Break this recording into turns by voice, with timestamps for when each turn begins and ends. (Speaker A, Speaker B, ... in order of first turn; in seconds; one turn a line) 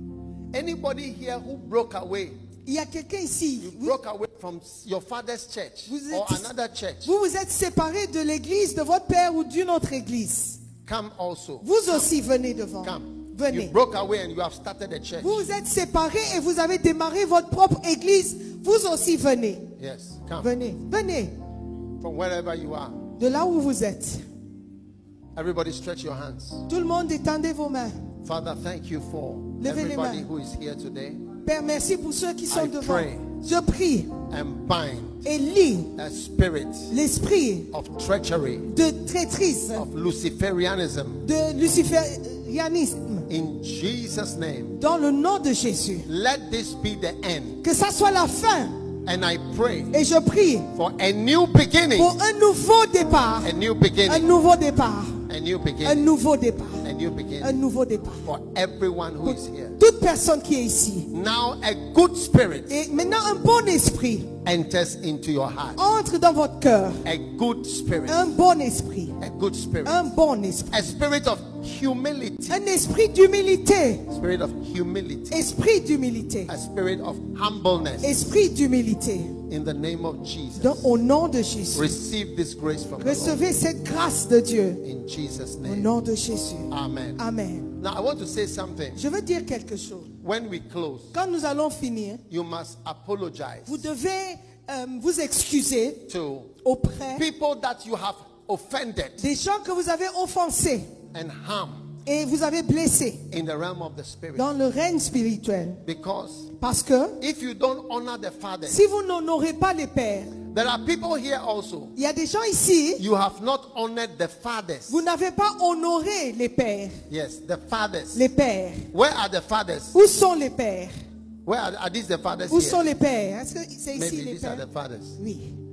Speaker A: 0.5-2.4
Speaker B: 2.6-4.0
Speaker A: 3.6-7.1
Speaker B: 5.9-6.5
Speaker B: 7.0-10.6
Speaker A: 10.8-12.0
Speaker B: 11.6-13.8
Speaker A: 12.8-15.4
Speaker B: 15.2-19.7
Speaker A: 19.8-20.5
Speaker B: 20.4-21.4
Speaker A: 22.0-23.1
Speaker B: 23.2-24.2
Speaker A: 25.4-26.7
Speaker B: 26.7-28.1
Speaker A: 28.2-31.2
Speaker B: 29.6-30.3
Speaker B: 31.4-34.2
Speaker A: 32.5-33.3
Speaker A: 34.3-35.2
Speaker B: 35.2-36.0
Speaker A: 36.0-36.9
Speaker B: 36.9-37.7
Speaker A: 37.7-38.7
Speaker B: 38.6-39.9
Speaker A: 39.8-41.2
Speaker B: 41.2-43.3
Speaker A: 43.3-44.8
Speaker B: 44.8-46.1
Speaker A: 46.1-47.6
Speaker B: 47.6-48.9
Speaker A: 49.0-50.0
Speaker B: 49.9-50.7
Speaker A: 50.7-52.1
Speaker B: 52.0-55.3
Speaker A: 53.4-54.3
Speaker A: 55.3-56.1
Speaker B: 55.8-56.9
Speaker A: 56.8-57.6
Speaker B: 57.4-58.2
Speaker A: 58.2-59.8
Speaker B: 59.2-61.1
Speaker A: 61.1-62.7
Speaker B: 62.7-64.4
Speaker A: 64.4-65.8
Speaker B: 65.8-67.0
Speaker A: 67.0-68.3
Speaker B: 68.1-69.2
Speaker A: 69.2-70.1
Speaker B: 69.8-70.9
Speaker A: 70.7-72.6
Speaker B: 72.5-74.1
Speaker A: 74.1-75.5
Speaker B: 75.3-76.5
Speaker A: 76.5-78.2
Speaker B: 78.0-79.4
Speaker A: 79.5-80.9
Speaker B: 80.6-82.0
Speaker A: 81.7-83.4
Speaker B: 83.0-84.8
Speaker A: 84.8-85.9
Speaker B: 85.6-87.8
Speaker A: 86.7-87.2
Speaker A: 87.8-89.0
Speaker B: 89.0-90.1
Speaker A: 90.2-91.2
Speaker B: 91.1-92.2
Speaker A: 92.3-93.8
Speaker B: 93.7-96.1
Speaker A: 96.1-96.5
Speaker B: 96.6-97.2
Speaker A: 97.2-99.2
Speaker B: 99.2-101.0
Speaker A: 101.1-101.9
Speaker B: 102.0-103.3
Speaker A: 103.3-104.5
Speaker B: 104.4-105.8
Speaker A: 105.8-106.5
Speaker B: 106.5-107.2
Speaker A: 107.2-108.8
Speaker B: 108.7-110.3
Speaker A: 110.5-112.0
Speaker B: 112.0-113.0
Speaker A: 113.0-115.0
Speaker B: 114.9-117.0
Speaker A: 117.1-118.3
Speaker B: 118.1-118.9
Speaker A: 118.9-120.0
Speaker B: 119.9-120.9
Speaker A: 121.5-122.8
Speaker B: 122.5-124.7
Speaker A: 124.0-125.2
Speaker B: 125.2-125.6